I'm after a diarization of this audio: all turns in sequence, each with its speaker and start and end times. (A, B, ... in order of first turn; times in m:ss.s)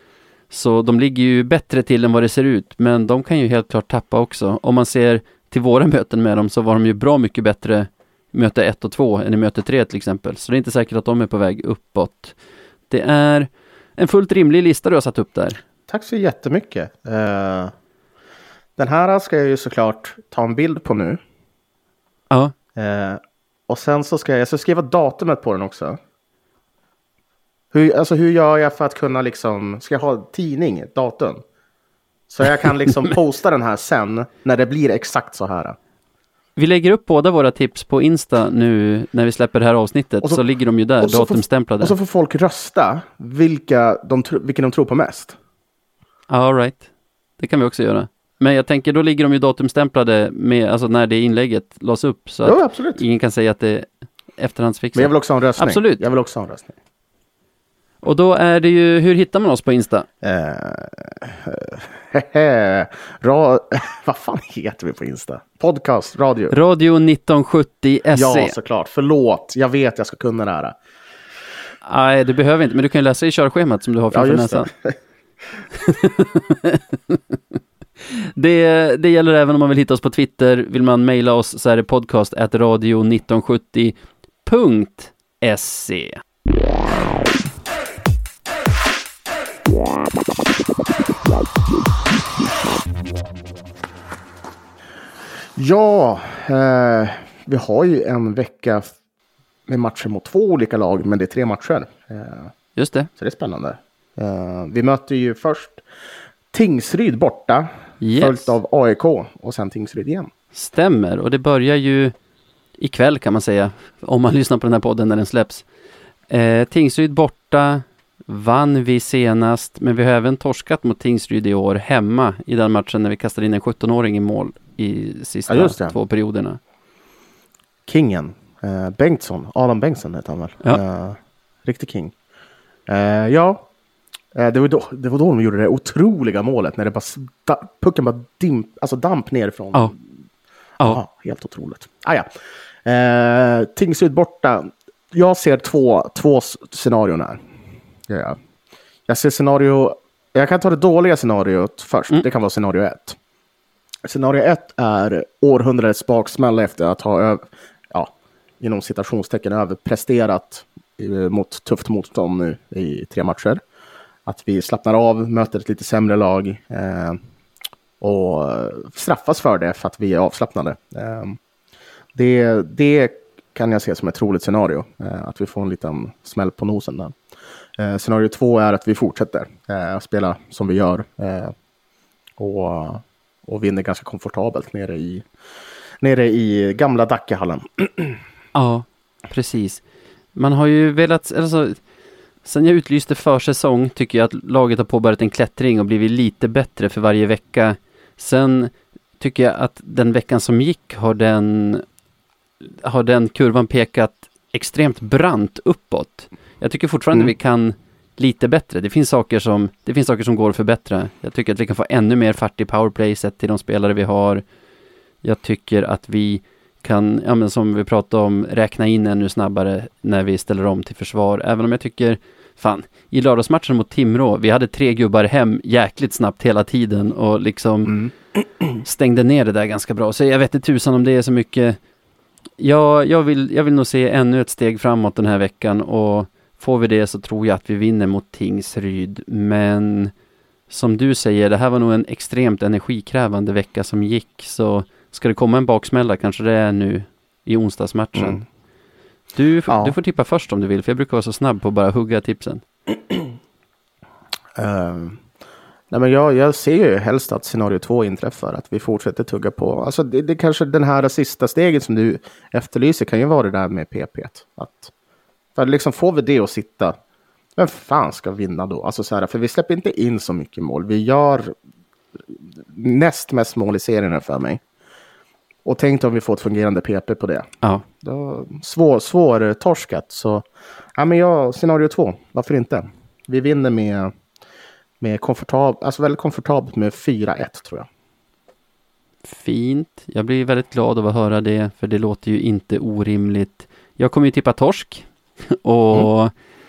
0:00.5-0:12.4 A
0:12.9-0:15.6 A
0:15.9-0:17.7 B
0:18.8-0:21.2 B
0:22.7-0:26.0 B
0:27.7-0:31.4 B
0:32.3-0:35.8 B
0:36.6-0:41.9 A
0:41.0-0:45.4 B
0:46.3-0:46.8 A
0:47.4-0:56.0 A
0:52.4-0:53.0 B
0:54.9-0:56.7 B
0:58.0-1:00.1 A
1:00.2-1:06.5 B
1:06.5-1:08.5 A
1:08.1-1:10.7 B
1:11.8-1:14.7 A
1:14.1-1:15.0 B
1:15.7-1:17.4 A
1:18.0-1:26.2 A
1:35.5-1:38.9 B
1:39.7-1:42.5 B
1:42.8-1:43.1 A
1:43.2-1:45.8 B
1:46.5-1:50.3 B
1:48.0-1:48.5 A
1:50.5-1:52.1 A
1:52.8-1:55.6 A
1:56.3-2:06.6 A
2:05.5-2:06.0 B
2:07.8-2:12.1 B
2:12.9-2:13.7 B
2:14.3-2:20.0 B
2:20.8-2:22.3 B
2:22.8-2:27.4 B
2:28.1-2:28.4 B
2:29.1-2:33.2 B
2:34.0-2:43.6 B
2:44.2-2:47.2 B
2:48.0-2:51.4 B
2:52.1-2:57.1 B
2:57.8-3:01.5 B
3:02.4-3:05.3 B
3:06.0-3:08.2 B
3:08.5-3:09.8 A
3:10.3-3:11.8 A
3:12.4-3:21.8 A
3:22.8-3:34.4 A
3:35.2-3:48.0 A
3:48.8-3:51.8 A
3:52.6-4:00.1 A
4:00.7-4:08.4 A
4:08.2-4:08.4 B
4:09.3-4:12.6 A
4:09.7-4:10.0 B
4:14.6-4:15.2 B
4:15.9-4:24.9 B
4:25.6-4:27.0 B
4:27.6-4:31.5 B
4:32.3-4:34.6 B
4:35.6-4:44.1 B
4:45.0-4:47.9 B
4:49.3-4:56.3 A